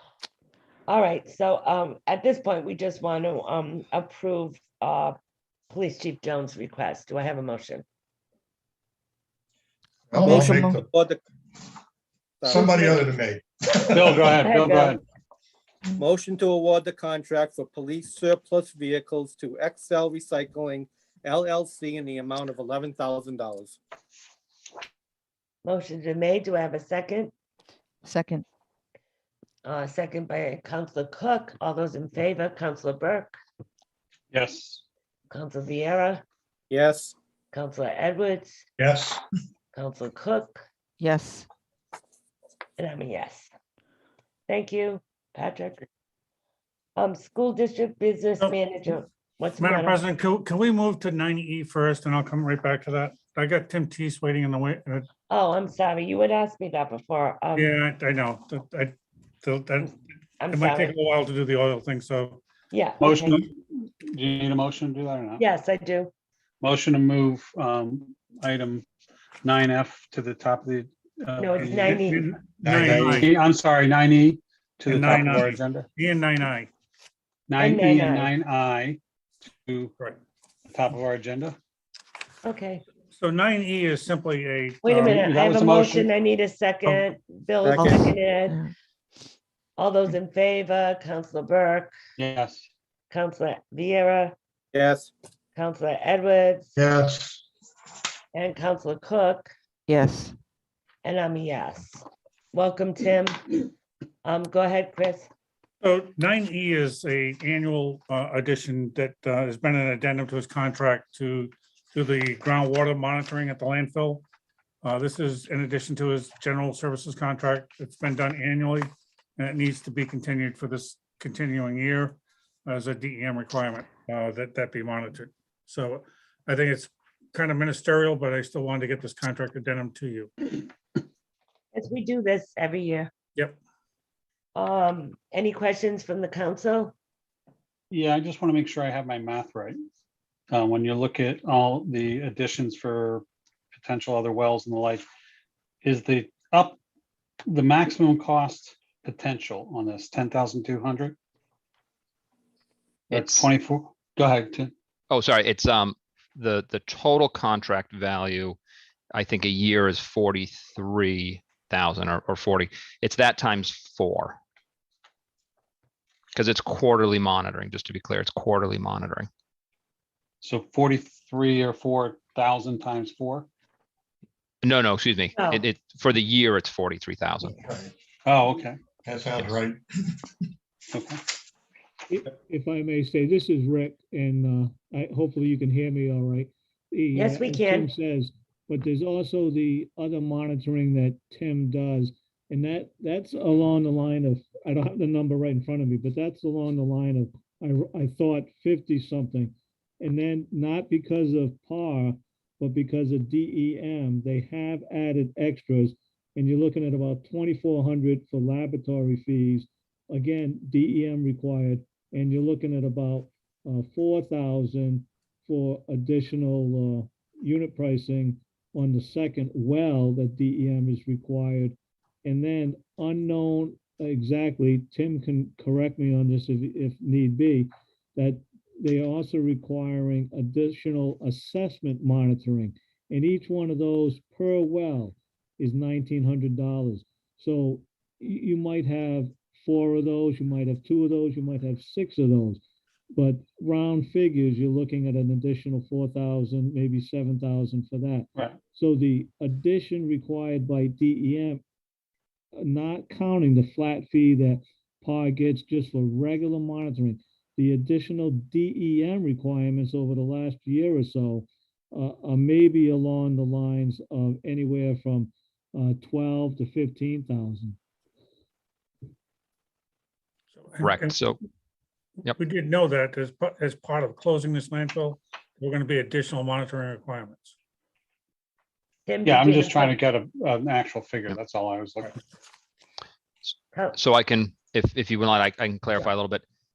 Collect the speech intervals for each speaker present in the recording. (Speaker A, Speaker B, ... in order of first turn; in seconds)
Speaker A: 0.9-5.2, 5.7-7.8, 14.4-15.0, 25.6-27.3, 29.6-33.4, 35.3-36.2, 37.5-38.6, 39.7-40.6, 42.8-43.5, 44.5-45.9, 47.0-50.0, 55.3-57.7, 60.4-60.9, 62.7-63.4, 65.4-66.1, 71.4-72.3, 77.6-78.3, 82.4-82.8, 84.8-88.6, 89.8-91.9, 93.1-94.4, 95.5-96.7, 98.3-99.5, 101.0-103.7, 104.2-105.3, 131.7-133.1, 134.6-136.9, 175.4-175.6, 187.2-187.9, 279.1-280.0
Speaker B: 10.1-10.9, 12.4-14.3, 38.8-39.2, 72.6-73.2, 96.8-97.4, 177.6-177.9, 179.1-179.8
Speaker C: 10.2-11.2, 12.4-13.1, 16.0-23.8, 36.7-37.1, 87.6-88.0, 94.7-95.1
Speaker D: 13.9-15.0, 34.3-34.8, 63.0-65.5, 66.6-68.8, 69.4-75.9, 77.5-79.0, 79.5-79.9, 80.7-81.6, 84.9-86.1, 92.2-92.7, 137.9-139.8, 140.5-145.0, 145.8-146.8, 147.5-151.2, 153.1-154.7, 170.4-173.5, 178.2-178.8, 180.9-181.2, 279.3-282.2
Speaker E: 28.1-28.4, 41.0-41.5, 87.7-88.7, 99.9-100.3
Speaker F: 49.6-55.1, 57.6-59.9, 60.5-62.4, 72.0-73.3, 74.9-76.7, 83.2-85.2, 105.8-114.2, 114.8-130.3, 270.6-271.2, 272.3-277.5
Speaker G: 153.1-153.5, 155.1-158.6, 159.1-164.4, 166.3-169.3, 174.6-177.6, 270.8-271.4, 283.9-286.4
Speaker H: 182.1-242.6, 243.1-251.6, 252.6-267.8